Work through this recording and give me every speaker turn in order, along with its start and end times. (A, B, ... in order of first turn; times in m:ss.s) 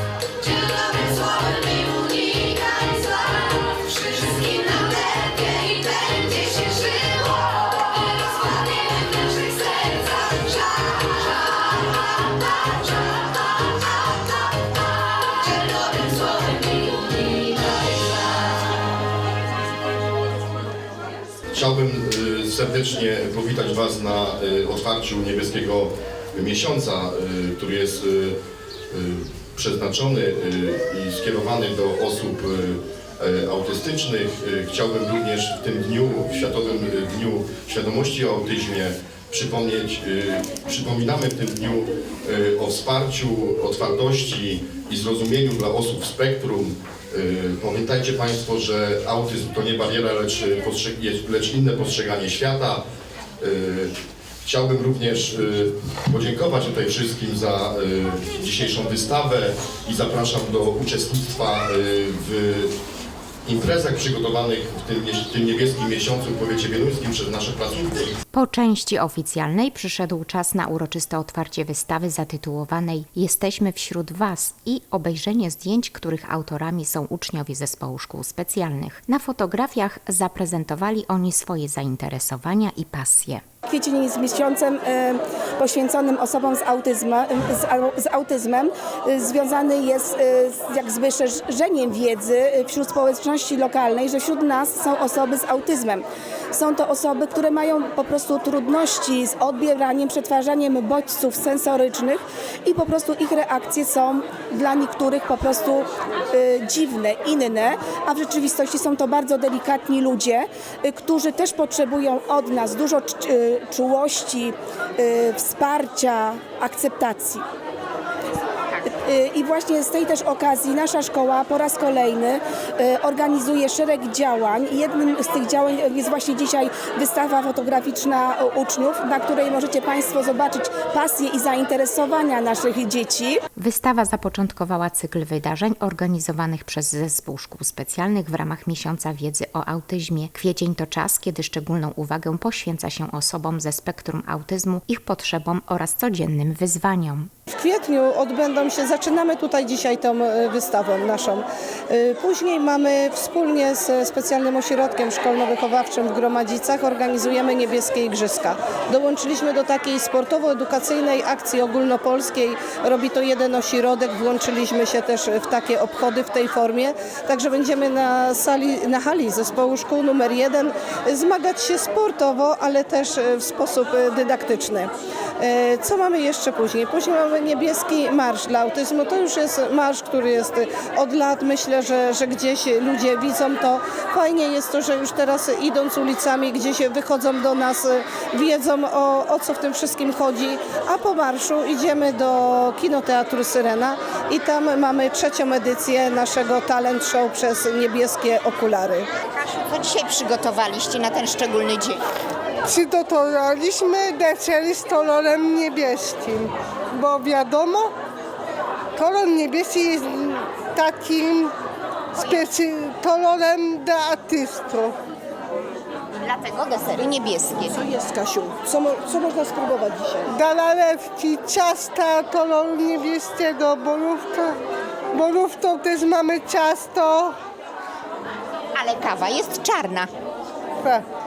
0:00.4-0:11.1 A
0:15.3-0:16.4 A
0:21.5-0:28.4 B
0:28.9-0:52.8 B
0:53.4-0:53.9 B
0:54.4-1:02.7 B
1:03.4-1:08.1 B
1:08.3-1:23.4 C
1:23.7-1:57.4 D
1:58.9-2:13.4 D
2:13.6-2:27.3 C
2:27.5-3:19.1 E
3:19.3-3:22.0 A
3:22.7-3:27.9 F
3:29.0-3:31.5 F
3:32.2-3:35.0 F
3:36.2-3:37.8 A
3:37.7-3:40.4 E
3:40.3-3:44.6 F
3:45.1-3:47.4 F
3:48.7-3:50.1 A